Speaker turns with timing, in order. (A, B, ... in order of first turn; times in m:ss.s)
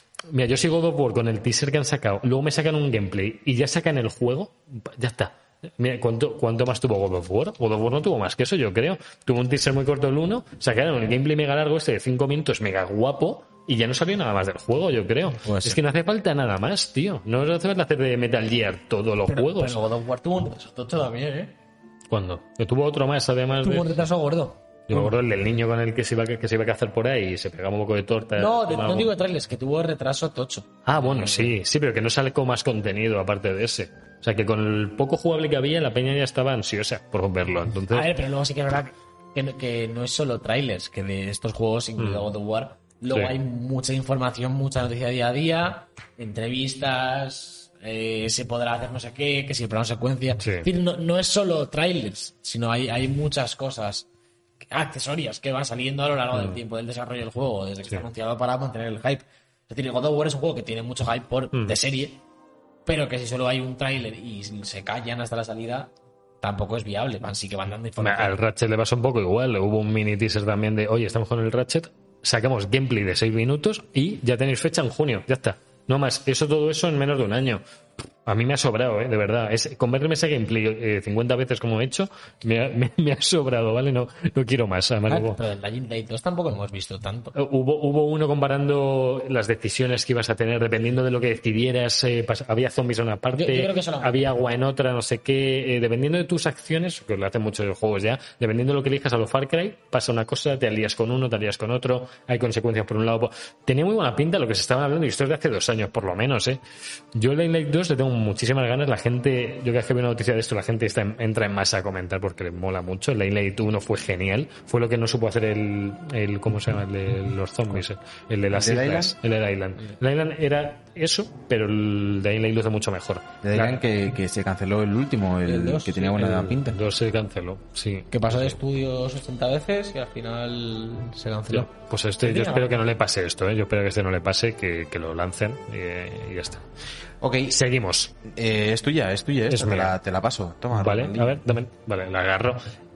0:00.3-0:19.8 A
0:15.4-0:15.8 B
0:19.3-0:21.6 B
0:22.1-0:24.0 A
0:23.6-0:25.2 B
0:24.9-0:29.1 A
0:28.4-0:31.6 B
0:30.9-0:38.1 A
0:37.9-0:54.1 B
0:42.0-0:42.2 A
0:50.4-0:50.7 A
0:54.7-1:02.2 B
1:02.9-1:08.4 B
1:08.0-1:17.6 A
1:18.2-1:25.4 A
1:25.1-1:27.3 B
1:27.4-1:46.6 A
1:33.3-1:34.2 B
1:47.2-2:03.8 A
1:58.5-1:59.2 C
2:03.4-2:06.8 C
2:05.4-2:06.3 B
2:06.2-2:08.6 A
2:08.1-2:11.7 B
2:11.5-2:16.7 A
2:12.2-2:12.8 B
2:17.2-2:17.6 C
2:17.5-2:18.2 A
2:18.3-2:21.4 C
2:19.5-2:20.0 A
2:20.7-2:22.6 A